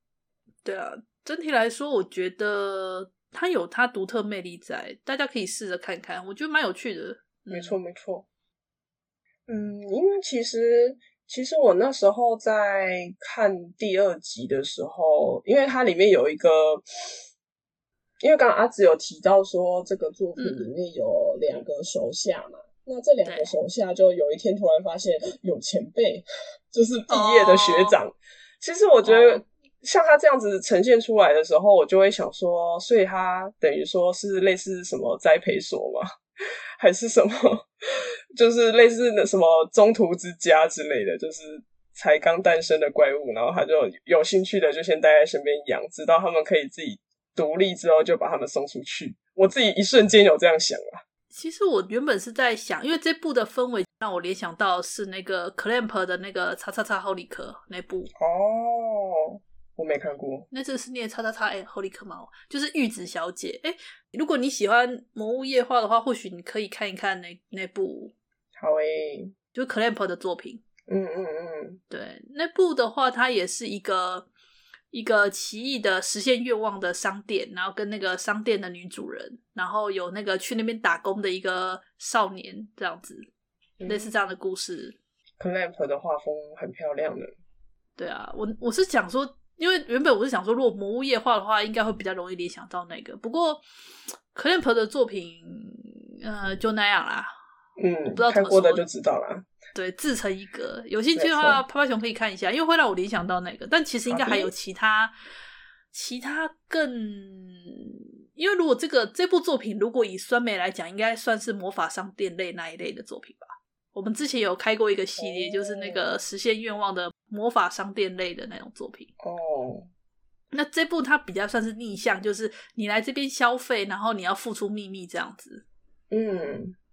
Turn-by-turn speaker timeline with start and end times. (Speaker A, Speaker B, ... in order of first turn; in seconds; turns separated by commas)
Speaker A: 0.6-7.8, Speaker B: 7.5-8.3, Speaker B: 9.5-17.2, Speaker B: 18.2-36.1, Speaker A: 20.4-20.7, Speaker A: 23.2-23.6, Speaker A: 27.1-28.0, Speaker A: 29.0-29.4, Speaker B: 36.8-51.0, Speaker A: 51.3-58.1, Speaker B: 58.2-60.5, Speaker A: 60.5-68.1, Speaker B: 68.6-69.3, Speaker A: 69.5-70.6, Speaker B: 70.9-71.8, Speaker A: 71.9-74.3, Speaker A: 74.9-83.3, Speaker B: 83.8-84.1, Speaker A: 83.9-85.0, Speaker B: 85.4-87.3, Speaker A: 88.0-93.6, Speaker A: 94.3-97.3, Speaker B: 97.8-99.5, Speaker A: 98.2-98.8, Speaker A: 99.7-105.1, Speaker B: 101.2-101.6, Speaker B: 104.1-104.5, Speaker A: 105.9-119.1, Speaker B: 115.2-116.2, Speaker B: 119.2-119.9, Speaker A: 120.5-125.7, Speaker B: 126.1-126.8